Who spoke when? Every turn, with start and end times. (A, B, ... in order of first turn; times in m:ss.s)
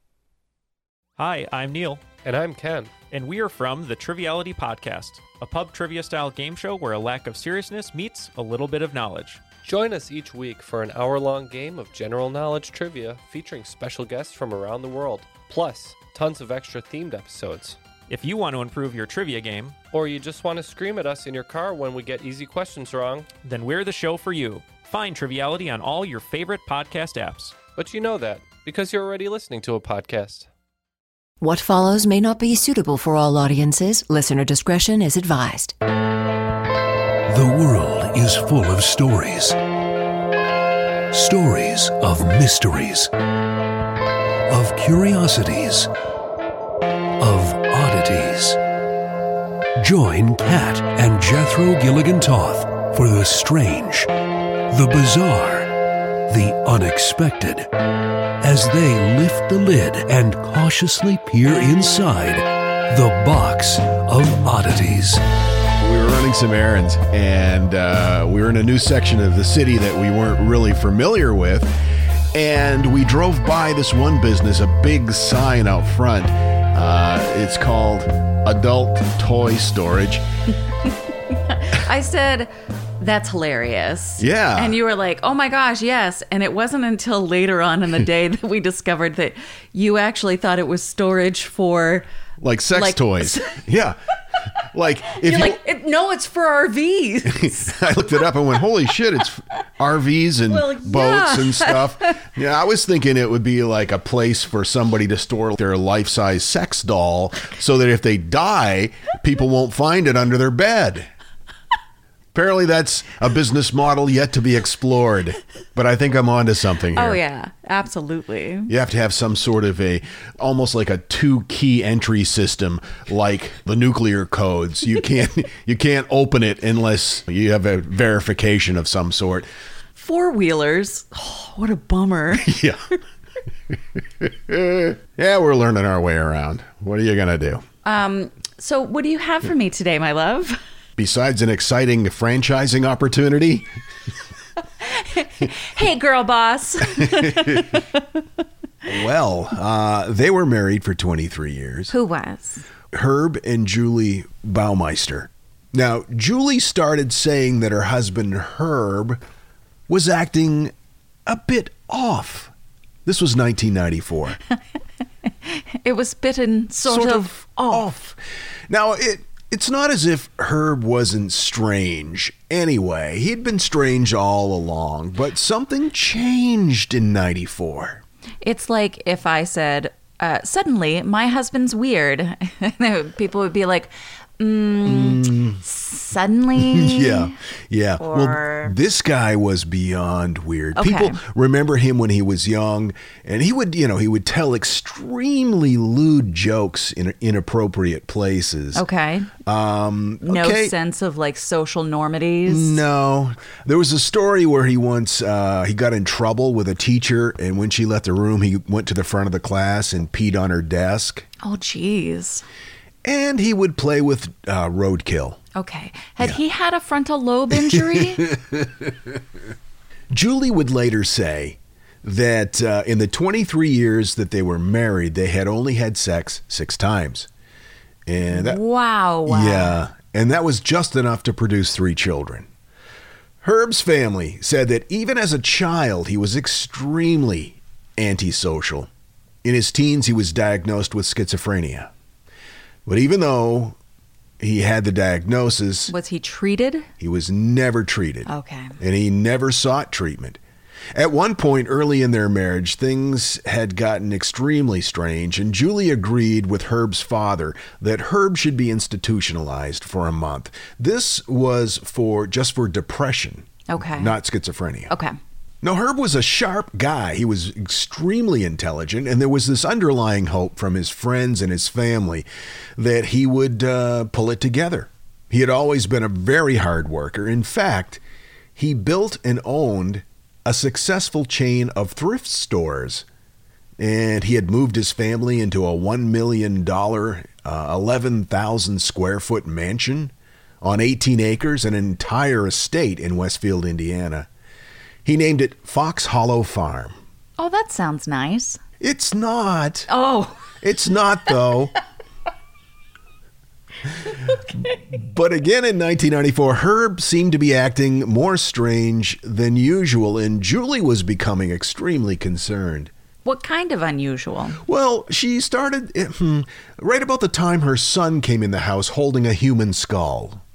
0:01.2-0:02.1 A
0:02.2-0:03.0 B
0:03.1-0:09.4 A
0:09.6-0:17.8 B
0:18.1-0:19.8 A
0:19.9-0:23.3 B
0:23.4-0:27.6 A
0:27.7-0:30.5 B
0:31.4-0:35.7 C
0:37.3-0:39.6 D
0:41.1-0:43.1 D
0:44.5-0:45.9 D
0:47.2-0:48.6 D
0:49.8-0:54.1 D
0:54.7-0:55.7 D
0:56.3-0:57.7 D
0:58.4-1:05.2 D
1:05.8-1:11.7 E
1:12.3-1:20.2 E
1:21.5-1:32.0 F
1:24.2-1:24.8 E
1:32.4-1:34.0 E
1:32.7-1:33.6 F
1:34.7-1:35.6 E
1:35.1-1:37.8 F
1:37.3-1:51.1 E
1:40.5-1:42.1 F
1:52.3-1:57.2 E
1:56.9-1:58.7 F
1:58.7-2:09.5 E
2:10.0-2:12.6 F
2:12.4-2:12.8 E
2:14.0-2:17.6 E
2:17.8-2:20.6 F
2:21.0-2:23.6 E
2:24.8-2:28.0 F
2:27.0-2:27.8 E
2:28.8-2:31.9 E
2:31.9-2:32.6 F
2:32.9-2:39.2 E
2:39.9-2:40.7 E
2:41.2-2:42.5 E
2:43.0-2:44.4 E
2:45.4-2:47.9 F
2:46.8-2:48.2 E
2:48.7-2:58.0 E
2:58.4-3:07.3 F
3:04.8-3:05.6 E
3:06.5-3:18.8 E
3:08.0-3:08.7 F
3:10.7-3:11.2 F
3:18.7-3:19.3 F
3:19.4-3:20.7 E
3:20.2-3:22.8 F
3:22.4-3:31.2 E
3:31.4-3:32.4 F
3:33.0-3:35.4 E
3:35.5-3:38.3 F
3:37.7-3:38.9 E
3:40.1-3:47.3 E
3:48.0-3:48.6 E
3:48.3-3:49.8 F
3:49.2-3:52.5 E
3:53.4-3:58.9 E
3:59.4-4:01.9 E
4:02.8-4:03.8 E
4:04.4-4:05.9 E
4:05.9-4:06.9 F
4:07.0-4:10.4 E
4:08.2-4:08.8 F
4:10.9-4:24.9 E
4:23.7-4:24.2 F
4:24.9-4:25.2 F
4:25.6-4:38.0 E
4:38.6-4:43.0 E
4:43.8-4:54.3 E
4:55.0-4:57.0 E
4:57.4-4:58.6 F
4:58.8-4:59.9 E
4:59.9-5:00.5 F
5:00.6-5:01.7 E
5:04.9-5:12.9 E
5:13.2-5:14.6 F
5:14.6-5:20.4 E